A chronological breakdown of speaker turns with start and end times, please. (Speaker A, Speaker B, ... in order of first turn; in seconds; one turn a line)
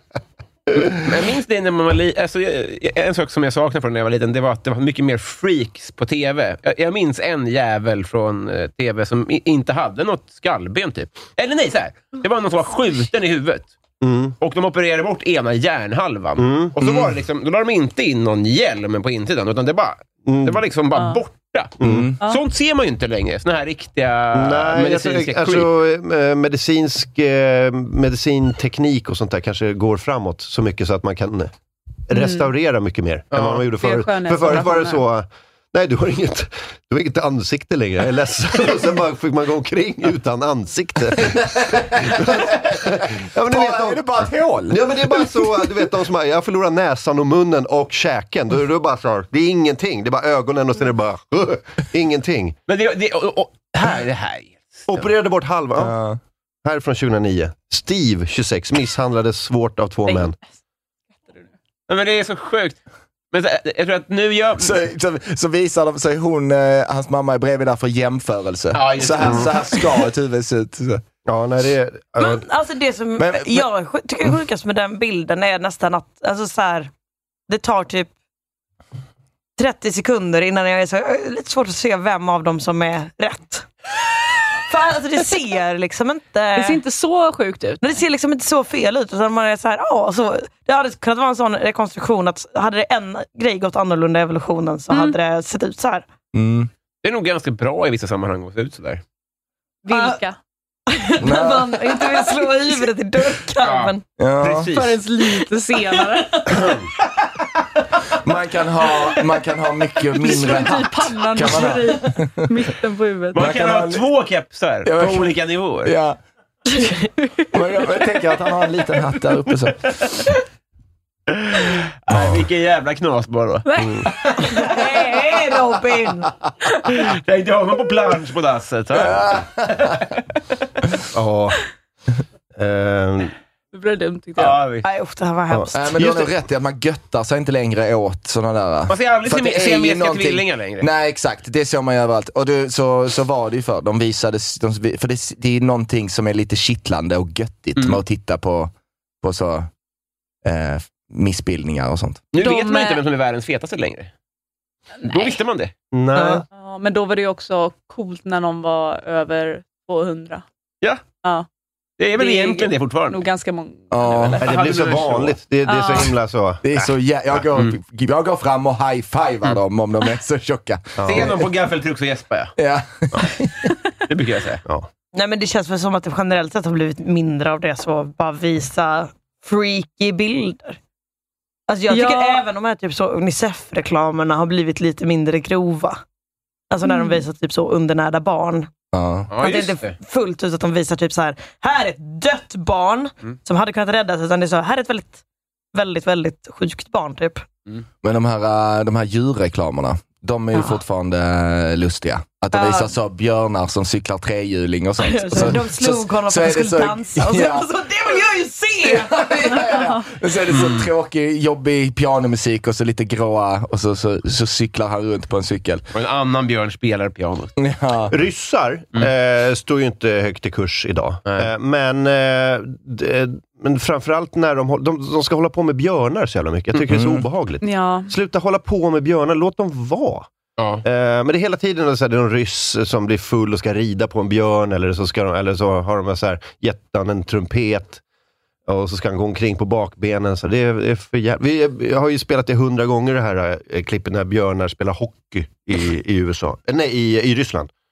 Speaker A: 0.8-13.7
Speaker B: 14.0-14.4
Speaker A: 14.4-25.7
Speaker B: 16.4-17.1
Speaker B: 20.3-20.6
Speaker C: 20.9-21.2
Speaker B: 21.8-22.1
Speaker D: 21.8-22.1
Speaker B: 24.3-31.5
Speaker B: 32.1-44.0
Speaker C: 32.1-32.5
Speaker A: 33.3-33.6
Speaker C: 33.7-35.0
Speaker D: 41.4-42.5
Speaker D: 43.4-45.5
Speaker B: 44.7-52.6
Speaker A: 52.7-55.1
Speaker B: 54.9-55.9
Speaker D: 55.8-56.2
Speaker B: 56.6-60.4
Speaker C: 60.1-60.4
Speaker A: 61.9-62.8
Speaker A: 63.3-64.8
Speaker D: 64.6-71.0
Speaker A: 68.7-69.8
Speaker B: 69.2-69.5
Speaker B: 71.3-72.5
Speaker E: 72.2-76.9
Speaker D: 73.2-73.7
Speaker E: 77.5-78.1
Speaker E: 79.6-83.7
Speaker E: 84.7-86.8
Speaker C: 86.5-87.9
Speaker E: 87.8-96.1
Speaker C: 94.9-95.2
Speaker D: 96.3-96.7
Speaker A: 97.0-99.0
Speaker C: 99.8-100.4
Speaker E: 99.9-100.2
Speaker E: 100.9-104.0
Speaker D: 101.2-101.9
Speaker A: 103.6-105.0
Speaker D: 104.2-104.7
Speaker C: 104.7-106.6
Speaker E: 106.0-106.6
Speaker D: 108.2-112.6
Speaker C: 110.2-113.4
Speaker A: 113.3-115.9
Speaker D: 113.3-114.1
Speaker D: 114.8-116.2
Speaker E: 116.7-117.1
Speaker D: 117.5-119.9
Speaker A: 121.3-124.7
Speaker C: 123.6-125.3
Speaker B: 123.8-124.1
Speaker E: 124.4-126.3
Speaker A: 126.9-130.1
Speaker D: 128.9-129.9
Speaker B: 131.1-131.6
Speaker B: 132.6-133.3
Speaker C: 133.7-134.6
Speaker A: 134.4-134.9
Speaker E: 134.8-135.9
Speaker B: 135.5-136.3
Speaker D: 135.7-149.7
Speaker A: 138.9-140.9
Speaker D: 150.4-152.2
Speaker A: 152.3-154.1
Speaker C: 152.4-153.0
Speaker C: 155.0-155.4
Speaker A: 155.1-155.7
Speaker B: 155.9-156.4
Speaker E: 156.2-156.4
Speaker C: 156.5-160.4
Speaker C: 161.2-161.5
Speaker A: 162.0-163.2
Speaker C: 162.2-164.4
Speaker D: 163.9-164.4
Speaker A: 164.4-165.4
Speaker B: 164.4-166.8
Speaker C: 165.7-166.2
Speaker D: 166.6-171.4
Speaker B: 171.0-171.4
Speaker A: 171.0-172.5
Speaker D: 172.6-173.7
Speaker A: 174.1-174.6
Speaker E: 175.1-180.8
Speaker E: 181.7-186.0
Speaker C: 181.9-182.4
Speaker E: 186.7-188.7
Speaker C: 186.8-187.2
Speaker D: 188.9-189.3
Speaker A: 189.3-189.9
Speaker E: 189.4-195.2
Speaker E: 195.7-197.4
Speaker D: 198.0-207.7
Speaker E: 202.6-202.9
Speaker E: 205.0-209.7
Speaker D: 208.8-215.8
Speaker A: 210.5-210.9
Speaker A: 215.9-217.5
Speaker D: 217.6-218.1
Speaker B: 218.1-230.3
Speaker D: 226.9-227.2
Speaker C: 227.6-228.1
Speaker A: 230.6-230.8
Speaker B: 230.8-238.0
Speaker B: 238.7-247.7